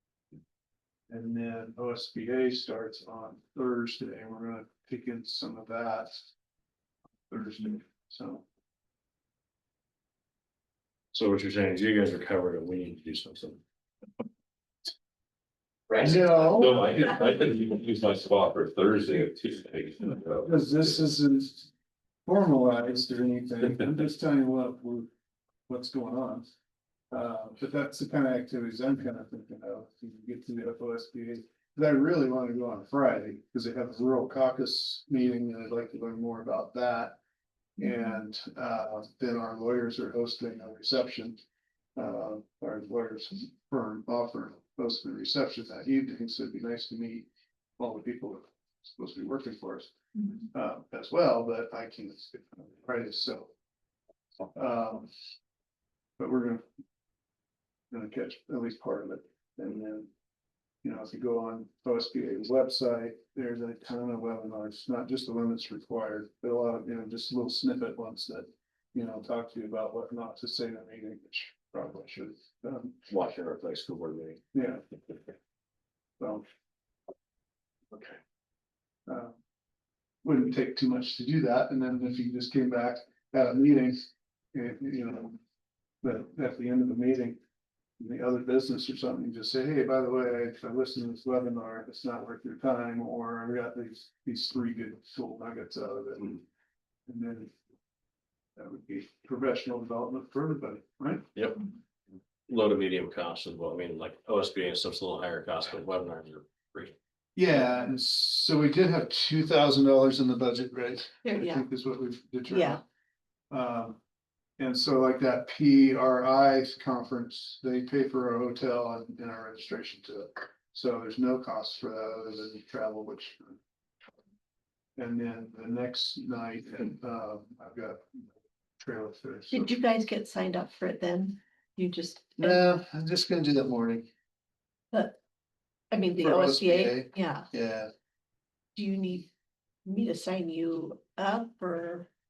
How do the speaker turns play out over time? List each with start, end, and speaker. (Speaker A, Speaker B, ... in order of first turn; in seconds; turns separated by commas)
Speaker A: 1.1-6.1, Speaker A: 7.3-8.4, Speaker B: 11.1-13.6, Speaker B: 15.9-17.1, Speaker A: 16.0-16.8, Speaker C: 16.0-20.9, Speaker A: 20.4-21.7, Speaker A: 22.3-25.1, Speaker A: 25.7-26.5, Speaker A: 27.1-37.2, Speaker A: 37.8-41.4, Speaker A: 42.0-49.9, Speaker A: 50.5-53.5, Speaker A: 54.5-55.1, Speaker A: 56.2-56.6, Speaker A: 57.9-60.1, Speaker A: 60.8-73.0, Speaker B: 73.1-74.4, Speaker A: 74.5-75.1, Speaker A: 76.2-76.5, Speaker B: 77.9-78.2, Speaker A: 79.1-79.4, Speaker A: 80.2-85.4, Speaker A: 86.0-87.4, Speaker A: 88.0-96.4, Speaker A: 97.1-97.5, Speaker A: 98.6-101.3, Speaker B: 101.3-101.7, Speaker B: 102.5-107.0, Speaker A: 107.4-112.8, Speaker D: 111.2-111.7, Speaker D: 112.5-112.8, Speaker A: 113.5-114.0, Speaker A: 114.6-123.6, Speaker A: 125.0-129.7, Speaker D: 129.5-132.7, Speaker A: 132.4-134.1, Speaker D: 134.9-135.2, Speaker D: 135.9-137.5, Speaker A: 136.2-137.9, Speaker D: 138.8-139.3, Speaker D: 139.8-142.1